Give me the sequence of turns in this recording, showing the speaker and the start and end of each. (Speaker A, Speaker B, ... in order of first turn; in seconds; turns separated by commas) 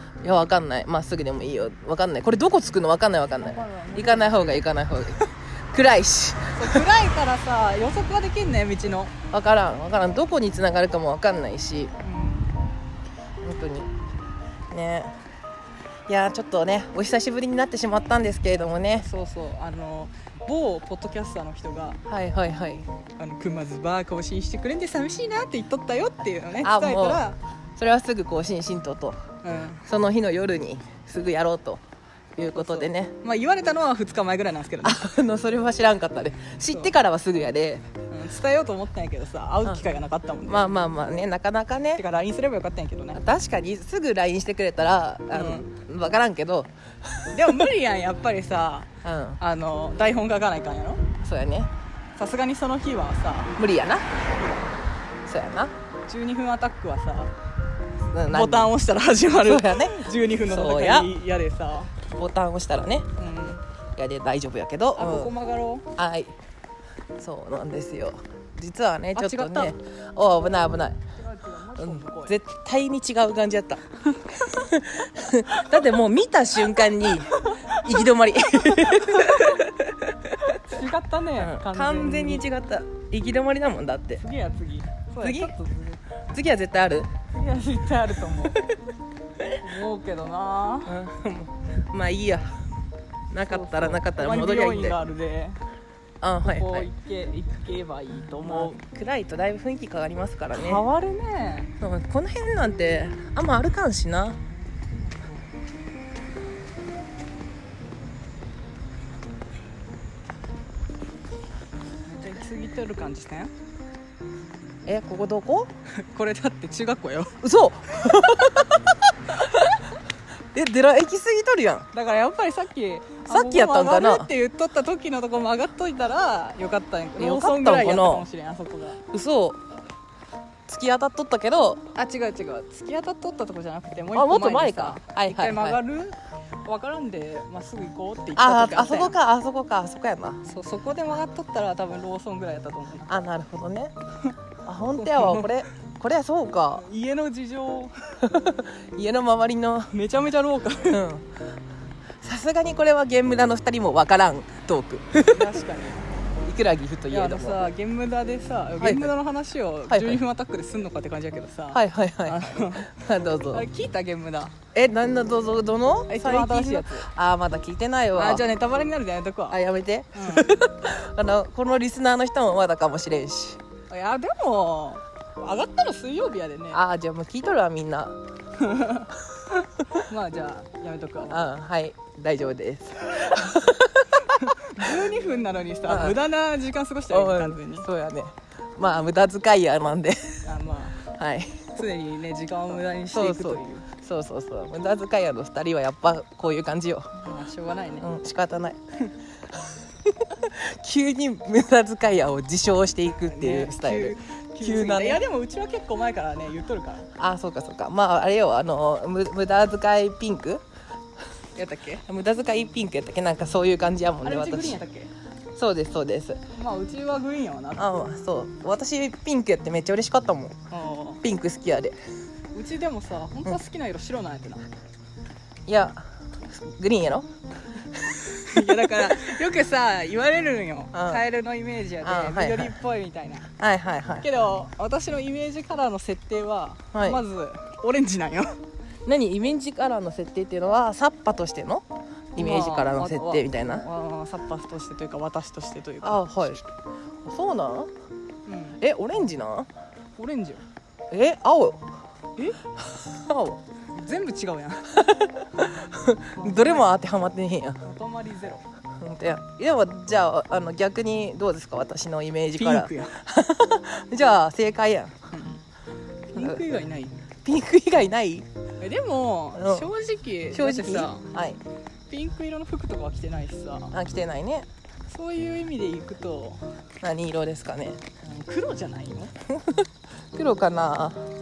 Speaker A: 0.2-6.9, Speaker B: 3.4-4.6, Speaker B: 6.5-9.1, Speaker A: 9.3-11.9, Speaker B: 12.0-12.6, Speaker A: 13.4-13.9, Speaker A: 14.7-15.2, Speaker A: 16.1-19.1, Speaker B: 18.9-22.0, Speaker A: 22.1-22.9, Speaker B: 23.2-27.4, Speaker A: 26.6-27.3, Speaker A: 27.8-29.2, Speaker B: 29.4-29.8, Speaker A: 29.9-31.8, Speaker A: 32.4-33.1, Speaker B: 32.5-35.0, Speaker A: 34.8-37.9, Speaker B: 36.7-36.9, Speaker B: 38.1-40.7, Speaker A: 39.6-39.9, Speaker A: 40.4-42.0, Speaker B: 42.0-43.2, Speaker A: 43.1-46.7, Speaker B: 45.3-45.7, Speaker A: 47.2-47.5, Speaker B: 47.3-48.9, Speaker A: 49.0-49.4, Speaker B: 49.4-51.0, Speaker A: 51.2-51.7, Speaker B: 52.2-53.6, Speaker A: 53.6-54.1, Speaker A: 55.3-55.7, Speaker B: 56.1-57.3, Speaker A: 58.1-58.7, Speaker B: 58.3-61.9, Speaker A: 59.3-61.1, Speaker A: 62.1-63.1, Speaker B: 63.2-63.6, Speaker A: 64.0-65.3, Speaker B: 64.9-65.8, Speaker A: 66.0-66.3, Speaker A: 67.2-71.0, Speaker B: 69.2-69.7, Speaker B: 71.2-72.4, Speaker A: 71.8-80.6, Speaker B: 77.3-78.0, Speaker B: 78.6-79.7, Speaker B: 80.5-82.5, Speaker A: 81.4-84.2, Speaker B: 84.2-86.0, Speaker A: 85.2-85.5, Speaker A: 86.3-87.1, Speaker B: 87.4-88.6, Speaker B: 89.6-91.0, Speaker A: 90.9-92.5, Speaker A: 93.3-95.0, Speaker B: 93.5-95.6, Speaker A: 96.2-96.9, Speaker B: 96.4-98.8, Speaker A: 98.5-100.8, Speaker B: 100.5-101.7, Speaker A: 101.8-104.4, Speaker B: 112.1-113.5, Speaker A: 114.9-115.7, Speaker B: 116.0-117.4, Speaker A: 117.4-119.8, Speaker A: 120.5-121.9, Speaker B: 121.9-129.0, Speaker A: 123.3-124.3, Speaker A: 127.2-128.3, Speaker A: 129.1-129.6, Speaker A: 130.7-131.8, Speaker B: 131.9-139.2, Speaker A: 134.1-135.8, Speaker A: 138.3-140.4, Speaker B: 140.4-143.1, Speaker A: 143.1-143.9, Speaker A: 144.7-146.9, Speaker B: 145.0-145.5, Speaker B: 146.8-148.3, Speaker A: 148.2-149.9, Speaker B: 149.9-151.0, Speaker A: 150.9-151.3, Speaker A: 152.2-155.6, Speaker B: 155.3-156.1, Speaker A: 156.4-157.7, Speaker B: 157.1-164.6, Speaker A: 158.8-159.2, Speaker A: 159.9-160.2, Speaker A: 161.7-163.7, Speaker A: 164.7-168.5, Speaker B: 166.1-167.1, Speaker B: 168.2-169.6, Speaker A: 169.5-173.6, Speaker B: 170.2-170.6, Speaker B: 173.9-176.8, Speaker A: 176.7-178.2, Speaker B: 178.6-181.5, Speaker A: 181.3-184.2, Speaker B: 184.2-187.9, Speaker A: 185.9-186.2, Speaker A: 187.1-190.4, Speaker B: 190.5-191.1, Speaker A: 191.1-191.7, Speaker B: 191.8-193.9, Speaker A: 193.1-197.1, Speaker B: 197.2-198.1, Speaker A: 198.0-198.8, Speaker A: 200.2-205.2, Speaker B: 203.1-207.1, Speaker A: 207.2-210.6, Speaker B: 211.6-212.0, Speaker A: 212.1-214.8, Speaker B: 214.2-215.1, Speaker A: 215.6-216.4, Speaker B: 216.6-217.9, Speaker A: 217.8-220.6, Speaker B: 220.7-221.2, Speaker A: 221.2-221.9, Speaker B: 222.5-224.6, Speaker A: 225.7-227.3, Speaker A: 228.2-228.8, Speaker B: 228.4-233.5, Speaker A: 230.9-231.3, Speaker A: 232.0-232.8, Speaker A: 233.6-234.5, Speaker B: 234.2-238.6, Speaker A: 236.9-237.2, Speaker A: 239.1-243.9, Speaker B: 242.4-246.6, Speaker A: 246.0-246.6, Speaker A: 247.2-247.9, Speaker B: 248.5-248.8, Speaker A: 248.8-249.7, Speaker B: 250.2-250.6, Speaker A: 251.1-251.8, Speaker A: 253.0-253.6, Speaker B: 254.0-254.9, Speaker A: 254.9-257.8, Speaker B: 256.4-256.9, Speaker B: 257.8-258.6, Speaker A: 259.0-265.1, Speaker B: 262.6-263.2, Speaker B: 265.3-265.6, Speaker B: 266.3-267.2, Speaker A: 266.4-266.6, Speaker A: 267.4-268.5, Speaker B: 268.8-271.3, Speaker A: 269.6-269.9, Speaker A: 270.5-271.6, Speaker B: 272.1-273.9, Speaker A: 273.9-274.7, Speaker B: 275.1-276.6, Speaker A: 277.0-278.0, Speaker B: 278.2-279.3, Speaker A: 279.5-281.2